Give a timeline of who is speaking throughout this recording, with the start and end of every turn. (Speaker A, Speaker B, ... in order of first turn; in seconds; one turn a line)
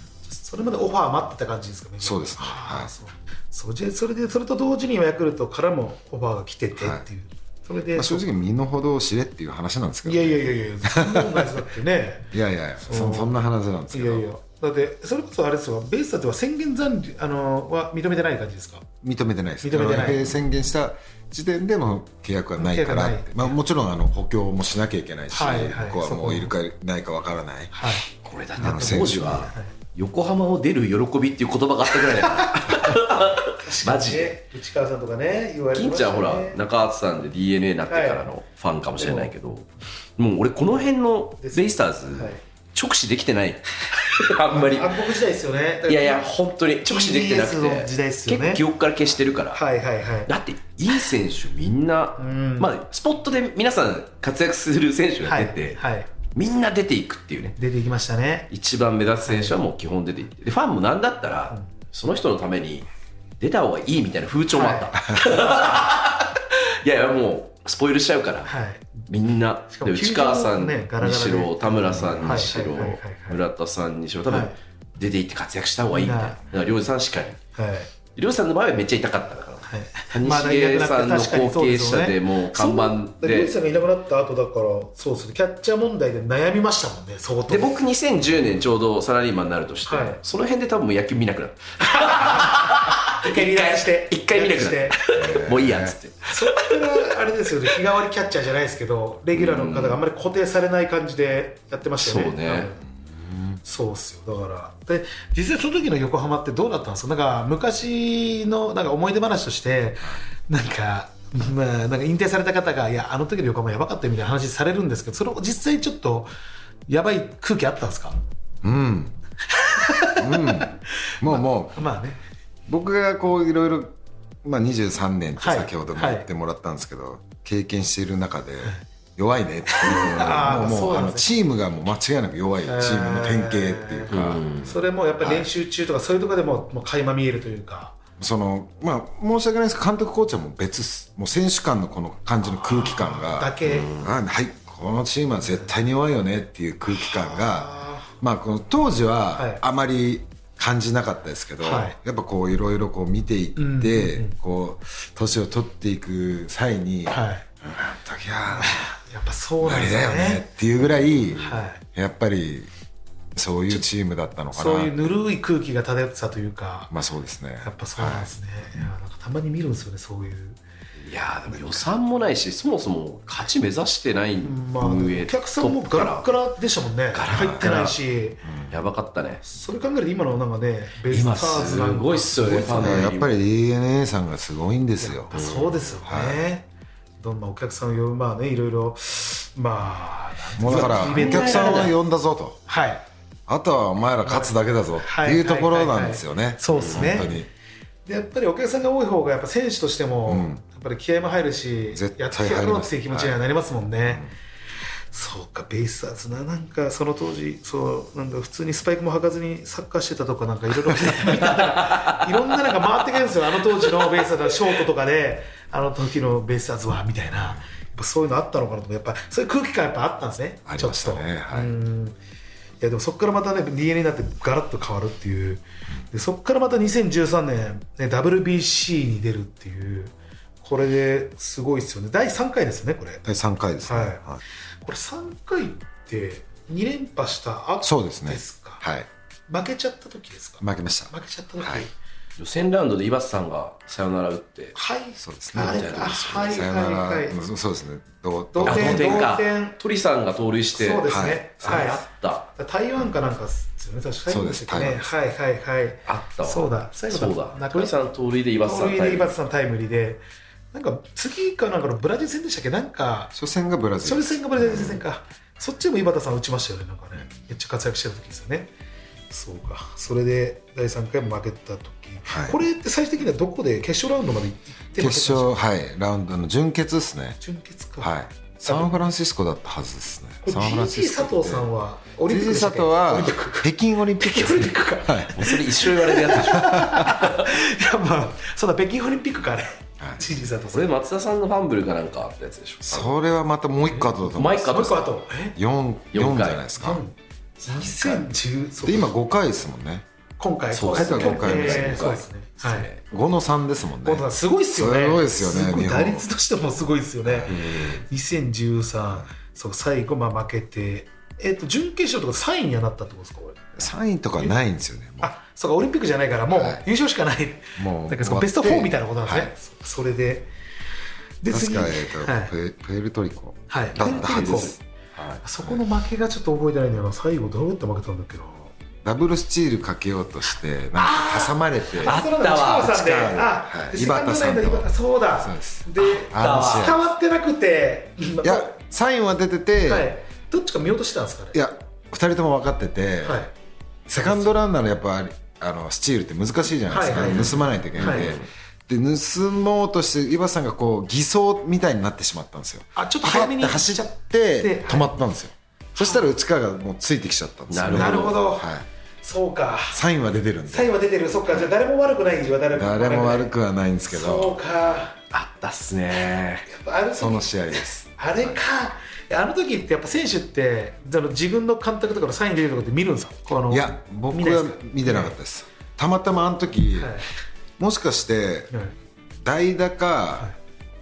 Speaker A: 0.2-8.3
Speaker B: 2.0-2.9
Speaker B: 6.8-7.0
Speaker B: 7.9-11.5
Speaker A: 10.0-12.3
Speaker B: 12.3-14.3
Speaker A: 12.8-13.3
Speaker A: 13.9-18.9
Speaker B: 19.0-27.7
Speaker A: 19.6-20.3
Speaker A: 22.6-23.6
Speaker A: 25.3-26.5
Speaker A: 27.7-28.1
Speaker C: 28.2-34.3
Speaker B: 28.6-29.5
Speaker A: 28.6-29.7
Speaker A: 33.5-36.6
Speaker C: 35.7-39.7
Speaker A: 37.9-38.2
Speaker A: 39.0-39.3
Speaker C: 40.2-45.1
Speaker A: 41.4-42.4
Speaker A: 44.2-46.3
Speaker C: 45.9-49.6
Speaker A: 46.9-48.6
Speaker A: 49.5-50.3
Speaker C: 50.3-55.8
Speaker A: 52.2-52.7
Speaker A: 55.2-56.1
Speaker C: 56.3-57.6
Speaker A: 57.6-58.5
Speaker C: 58.5-62.9
Speaker A: 59.2-59.5
Speaker C: 63.4-68.5
Speaker A: 64.5-65.7
Speaker A: 68.5-69.0
Speaker C: 69.1-77.4
Speaker A: 69.7-73.4
Speaker B: 72.0-72.3
Speaker A: 75.9-76.4
Speaker A: 77.5-77.9
Speaker C: 78.1-83.5
Speaker A: 79.7-87.8
Speaker C: 87.5-97.0
Speaker A: 89.9-90.2
Speaker A: 92.0-95.0
Speaker B: 95.1-96.0
Speaker A: 96.2-102.8
Speaker C: 99.3-100.0
Speaker C: 102.0-102.7
Speaker B: 103.0-103.6
Speaker A: 103.6-116.3
Speaker A: 116.9-118.2
Speaker B: 118.6-119.2
Speaker A: 119.5-120.7
Speaker B: 120.2-121.8
Speaker A: 121.3-122.2
Speaker B: 122.7-134.5
Speaker A: 125.4-126.2
Speaker A: 129.7-131.3
Speaker A: 132.7-138.0
Speaker C: 134.1-134.8
Speaker B: 135.2-135.5
Speaker B: 138.2-158.9
Speaker A: 142.4-143.9
Speaker C: 143.6-144.1
Speaker A: 146.9-148.1
Speaker A: 149.3-149.6
Speaker A: 151.6-151.9
Speaker A: 153.6-154.3
Speaker A: 157.1-157.4
Speaker A: 158.5-160.4
Speaker B: 159.6-162.7
Speaker A: 161.4-161.8
Speaker B: 163.3-165.0
Speaker A: 164.5-166.9
Speaker B: 166.9-168.3
Speaker A: 167.6-170.6
Speaker C: 171.0-176.3
Speaker A: 171.5-171.8
Speaker A: 174.4-178.4
Speaker C: 177.1-177.9
Speaker B: 177.3-177.6
Speaker B: 178.4-178.7
Speaker C: 178.7-179.4
Speaker A: 179.4-183.1
Speaker C: 181.1-183.4
Speaker B: 182.6-185.5
Speaker A: 185.0-186.7
Speaker C: 185.3-185.7
Speaker B: 186.0-186.4
Speaker A: 187.2-191.9
Speaker B: 190.6-192.6
Speaker C: 190.6-191.9
Speaker A: 192.7-193.0
Speaker B: 193.5-197.5
Speaker A: 194.2-197.3
Speaker C: 196.7-197.2
Speaker A: 198.1-204.3
Speaker B: 200.3-200.6
Speaker B: 201.9-203.3
Speaker A: 205.1-222.2
Speaker C: 211.6-212.1
Speaker B: 220.7-221.7
Speaker A: 222.8-233.2
Speaker B: 233.2-234.4
Speaker A: 233.8-234.2
Speaker A: 234.8-238.8
Speaker B: 237.8-239.1
Speaker A: 239.5-241.9
Speaker B: 240.6-241.8
Speaker C: 242.4-244.8
Speaker A: 244.7-247.4
Speaker B: 245.2-249.3
Speaker C: 245.5-246.5
Speaker A: 248.5-249.8
Speaker C: 248.7-252.5
Speaker A: 250.7-252.0
Speaker B: 251.1-251.9
Speaker A: 252.5-257.9
Speaker B: 254.3-255.2
Speaker C: 256.1-259.3
Speaker A: 258.6-263.3
Speaker B: 263.3-265.0
Speaker A: 264.0-268.7
Speaker A: 269.3-275.6
Speaker B: 272.3-272.6
Speaker B: 275.0-277.4
Speaker A: 277.4-278.9
Speaker B: 278.0-281.7
Speaker A: 280.4-290.9
Speaker B: 282.2-285.3
Speaker C: 285.3-287.4
Speaker B: 286.6-287.1
Speaker C: 290.7-293.1
Speaker B: 292.9-295.0
Speaker C: 294.3-295.0
Speaker A: 294.7-295.6
Speaker B: 295.6-297.0
Speaker C: 296.1-296.6
Speaker A: 296.8-299.1
Speaker B: 297.7-298.3
Speaker B: 298.8-300.0
Speaker A: 300.4-302.9
Speaker C: 300.7-303.0
Speaker B: 300.9-302.0
Speaker B: 303.1-306.3
Speaker A: 304.0-313.7
Speaker B: 307.2-307.6
Speaker C: 307.5-308.0
Speaker B: 313.8-315.3
Speaker A: 315.2-320.5
Speaker B: 316.5-316.8
Speaker B: 317.8-319.5
Speaker A: 321.4-322.5
Speaker B: 321.5-324.8
Speaker A: 323.7-324.8
Speaker C: 323.9-325.4
Speaker A: 325.4-328.7
Speaker B: 329.0-337.0
Speaker A: 331.0-338.7
Speaker C: 332.0-332.9
Speaker C: 336.0-337.0
Speaker B: 338.4-340.1
Speaker A: 339.8-341.6
Speaker B: 341.5-343.4
Speaker A: 343.2-343.5
Speaker B: 344.1-358.9
Speaker A: 344.2-344.6
Speaker A: 346.9-348.3
Speaker C: 347.2-348.5
Speaker A: 352.9-355.1
Speaker A: 356.0-356.2
Speaker C: 357.7-358.4
Speaker A: 357.9-358.7
Speaker A: 359.2-360.0
Speaker B: 359.9-360.9
Speaker A: 360.7-363.5
Speaker B: 362.7-364.6
Speaker A: 364.1-365.1
Speaker C: 365.3-366.6
Speaker A: 366.6-375.3
Speaker B: 367.2-368.5
Speaker B: 373.7-377.2
Speaker A: 377.0-377.3
Speaker B: 377.8-378.7
Speaker B: 379.4-380.5